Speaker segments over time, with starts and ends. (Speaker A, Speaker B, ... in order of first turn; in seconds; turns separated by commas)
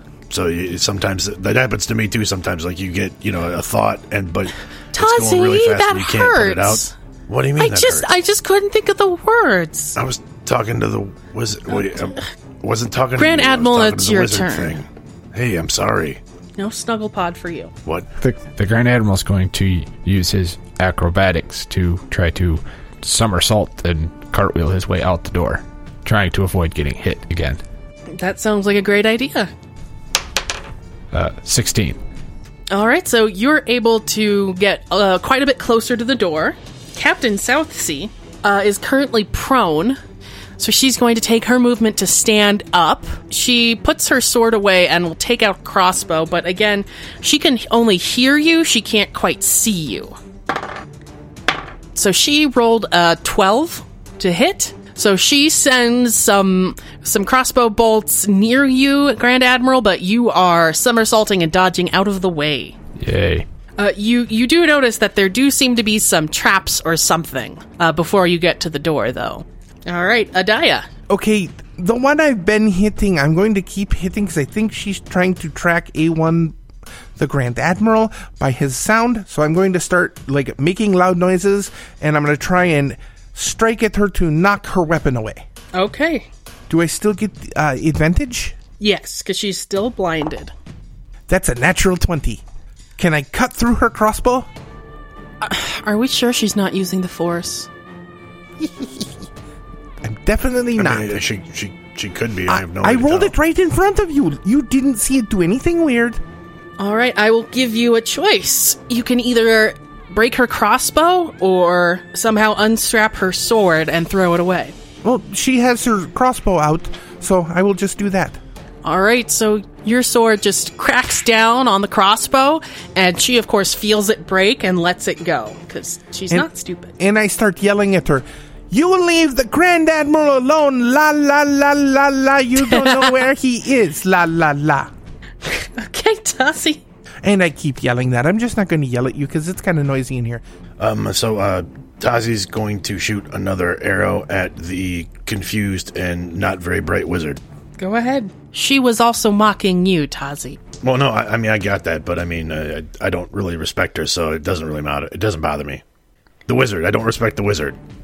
Speaker A: 0.3-8.1, Speaker B: 4.9-6.9, Speaker B: 7.6-9.9, Speaker A: 9.9-16.2, Speaker B: 13.2-14.8, Speaker B: 16.6-17.7, Speaker C: 18.2-27.6, Speaker B: 28.1-29.5, Speaker C: 31.1-32.0, Speaker B: 32.7-40.0, Speaker B: 40.6-50.1, Speaker B: 51.9-62.8, Speaker C: 63.0-63.5, Speaker B: 63.8-70.8, Speaker D: 71.1-76.5, Speaker D: 77.2-85.4, Speaker B: 85.7-86.3, Speaker D: 86.7-88.5, Speaker B: 88.8-90.5, Speaker D: 91.3-92.4, Speaker D: 93.0-94.5, Speaker B: 95.4-97.7, Speaker D: 98.6-99.0, Speaker D: 100.0-101.1, Speaker A: 100.8-103.3, Speaker D: 102.5-106.2, Speaker B: 106.8-114.7, Speaker D: 115.0-118.4, Speaker B: 118.8-126.9, Speaker D: 127.0-134.9, Speaker B: 132.7-133.2, Speaker B: 135.4-136.8, Speaker D: 137.2-140.4, Speaker A: 140.8-147.4, Speaker B: 147.8-150.6, Speaker A: 150.8-155.8, Speaker A: 156.5-157.8